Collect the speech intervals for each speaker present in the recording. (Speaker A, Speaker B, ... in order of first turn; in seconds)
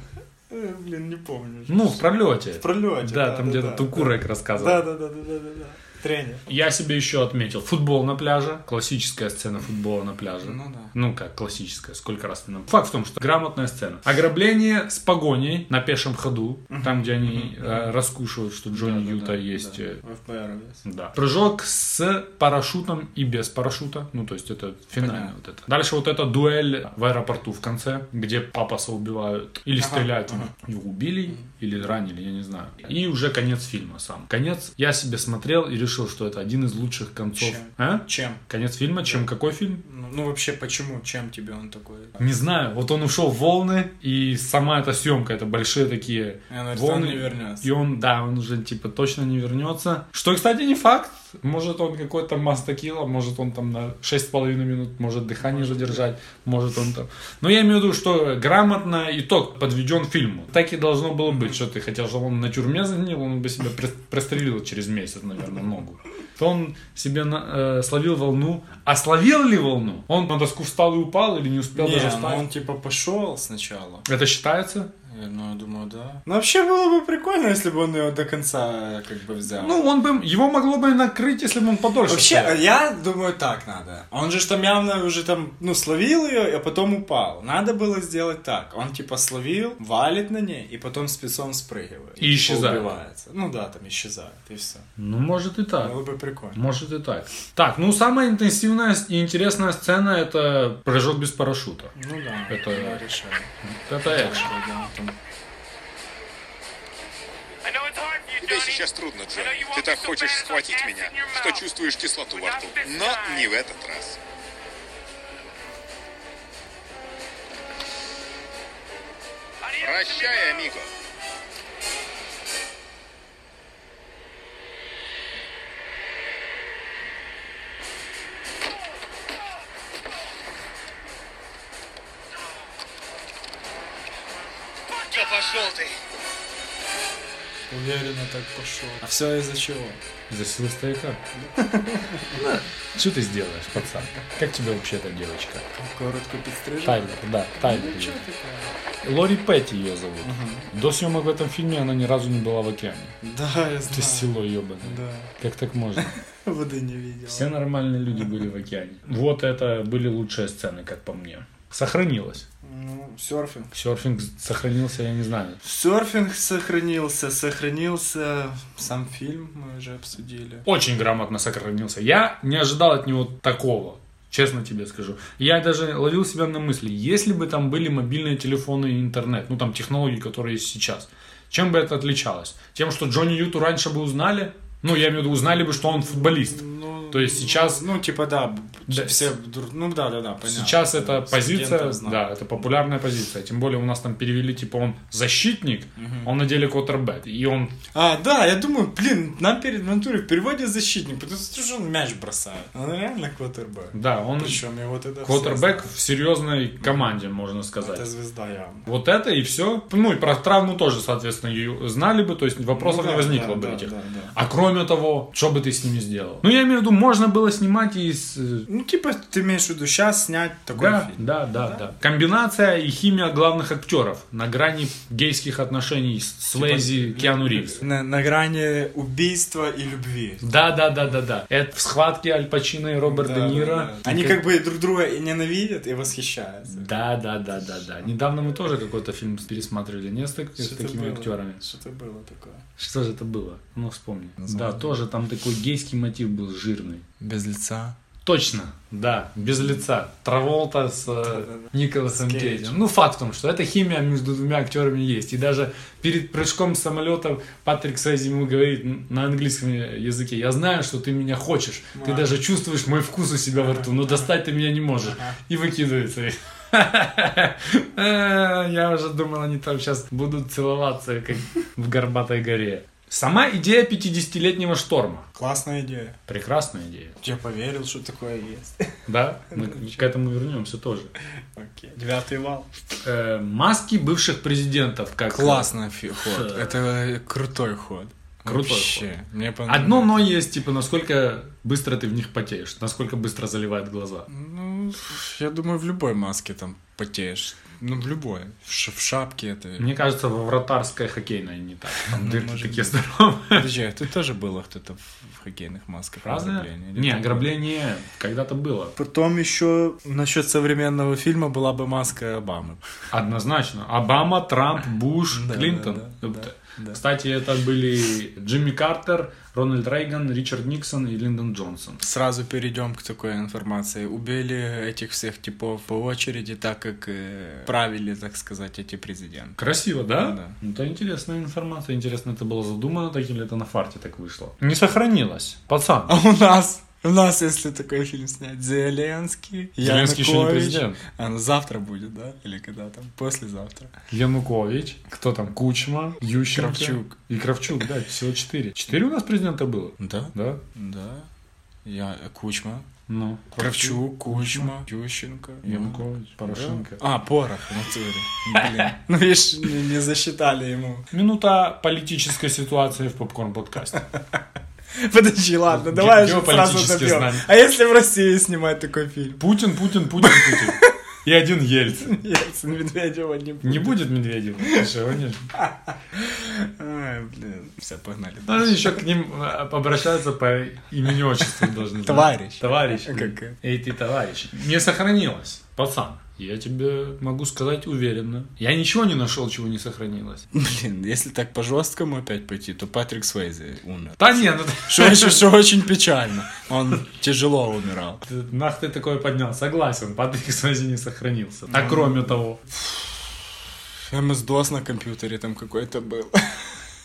Speaker A: 0.5-6.5, 10.4-10.9, 16.7-17.9, 18.7-20.9, 25.0-25.3, 29.8-30.6, 37.4-38.4, 39.8-42.2, 46.5-47.7, 55.4-56.0, 71.8-74.1, 75.0-79.8, 82.1-94.9, 95.8-96.6, 102.0-103.5, 104.0-105.2, 137.7-140.0, 141.4-142.4, 145.7-148.8, 150.2-150.7, 153.2-155.3, 156.1-157.5, 162.6-163.7, 165.6-170.7, 185.6-192.2, 196.0-196.3, 197.9-205.9, 206.8-207.1, 207.8-208.9, 212.7-214.3, 218.7-221.9, 226.5-230.5, 233.0-236.9, 240.6-242.6, 244.4-244.9, 247.2-248.0, 251.1-252.8, 261.9-262.4, 263.6-264.3, 265.1-265.4, 275.3-276.2, 277.2-278.9, 279.5-280.0, 281.6-282.7, 285.3-290.3, 294.3-299.9, 302.1-307.5, 308.9-312.8, 315.3-317.0, 322.0-329.6, 330.2-330.6, 336.1-343.9, 346.3-347.2, 350.0-351.3, 351.9-352.9, 353.6-361.1, 365.0-369.5, 370.2-370.9, 372.0-374.0, 375.6-379.0, 382.0-383.6, 390.5-398.2, 401.7-402.4, 404.1-406.7
Speaker B: 1.7-4.9, 6.5-20.0, 20.9-39.8, 42.2-72.5, 74.1-74.9, 79.5-82.6, 92.2-92.9, 95.0-96.0, 96.5-101.9, 102.5-103.1, 103.6-104.5, 140.3-141.2, 142.3-145.7, 146.8-148.2, 149.0-153.2, 153.9-156.2, 157.3-162.4, 163.7-165.6, 170.7-187.9, 188.9-189.3, 190.4-197.8, 203.9-204.6, 205.2-208.1, 208.9-218.7, 220.7-227.8, 230.4-234.4, 236.7-241.6, 242.8-247.0, 248.2-275.2, 276.3-277.2, 279.1-281.1, 283.0-286.8, 288.4-289.1, 289.7-294.3, 299.8-303.7, 306.2-308.9, 313.1-322.0, 329.6-336.2, 339.8-341.0, 344.1-350.6, 353.1-354.8, 355.6-357.0, 358.5-358.9, 361.1-364.0, 365.7-367.5, 369.4-372.1, 373.6-375.5, 378.5-390.4, 394.2-395.6, 398.2-402.7
Speaker C: 108.3-114.2, 119.8-120.9, 135.4-135.7